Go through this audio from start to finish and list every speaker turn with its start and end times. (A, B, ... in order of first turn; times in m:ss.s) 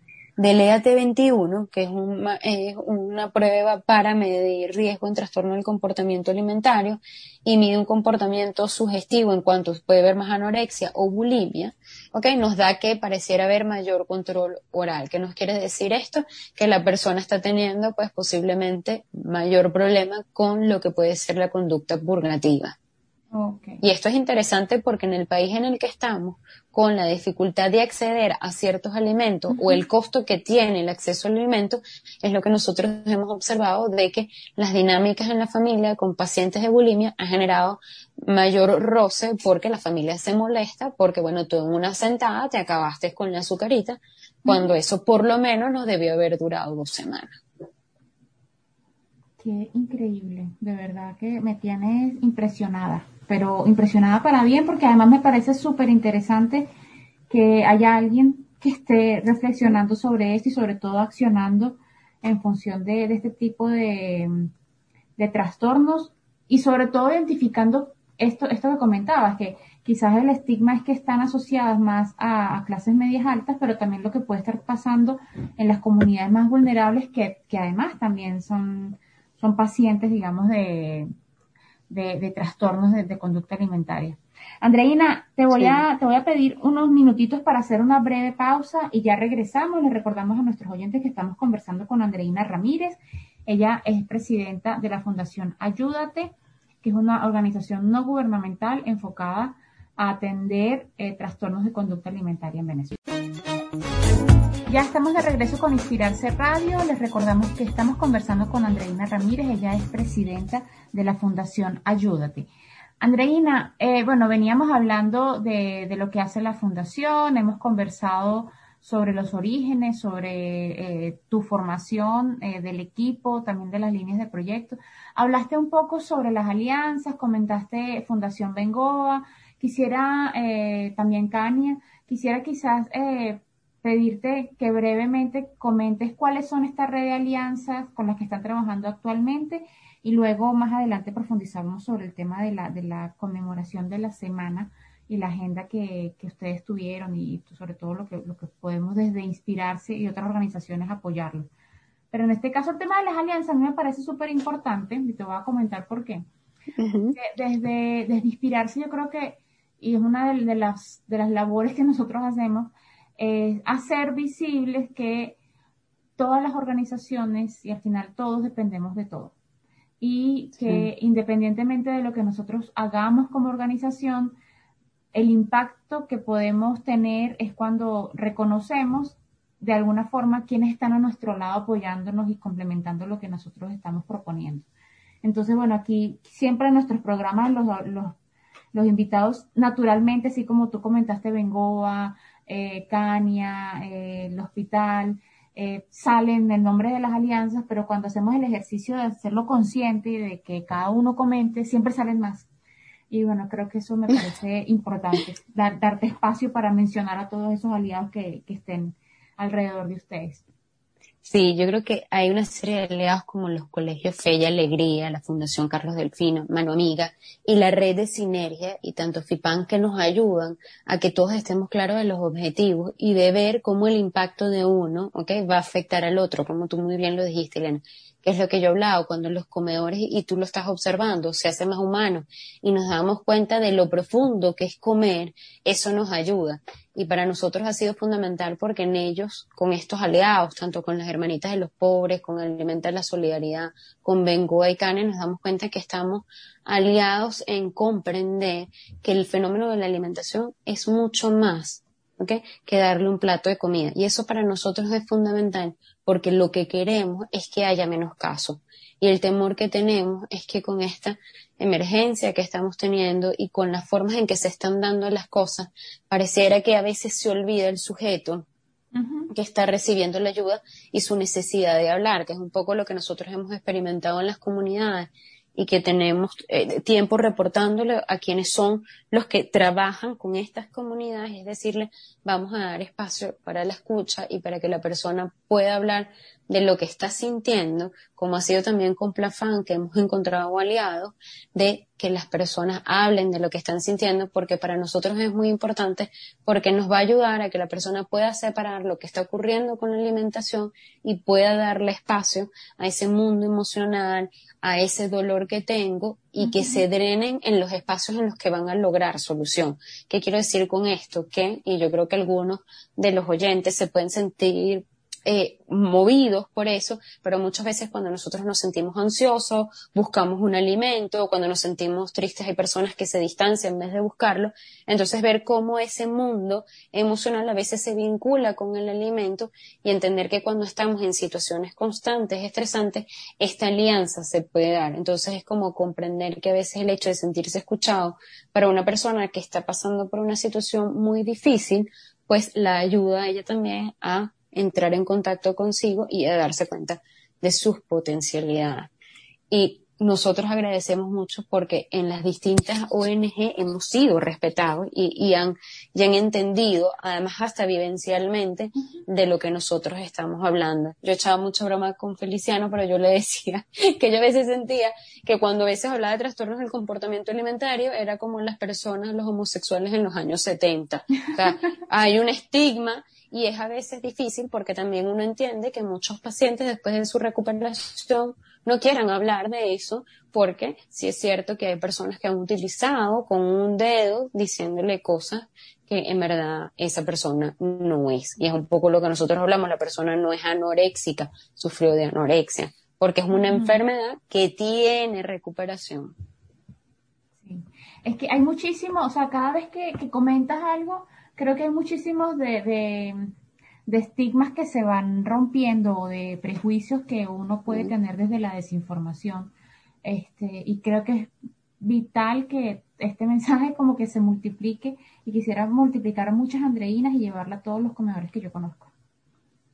0:00.4-0:22.8 A
0:23.3-0:23.8 B
0:23.8-0:47.4 A
0:29.5-0:29.8 B
0:44.4-0:44.7 B
0:49.4-0:56.7 B
0:57.3-1:04.5 B
1:05.2-1:21.1 B
1:21.9-1:43.0 B
1:25.5-1:25.8 A
1:44.7-1:52.5 B
1:53.0-2:31.5 B
2:32.1-2:36.3 B
2:36.8-2:37.2 A
2:37.1-2:45.4 B
2:46.2-2:49.3 B
2:50.0-2:54.4 B
2:55.1-3:04.7 B
3:05.2-3:08.2 B
3:08.7-3:22.5 B
3:23.1-3:30.4 B
3:31.2-4:28.5 A
4:29.0-4:29.3 B
4:29.3-5:48.9 A
5:06.4-5:06.8 B
5:49.5-6:36.1 A
6:33.3-6:33.8 B
6:37.4-6:43.3 B
6:43.9-6:49.5 B
6:47.7-6:47.9 A
6:50.0-6:58.9 B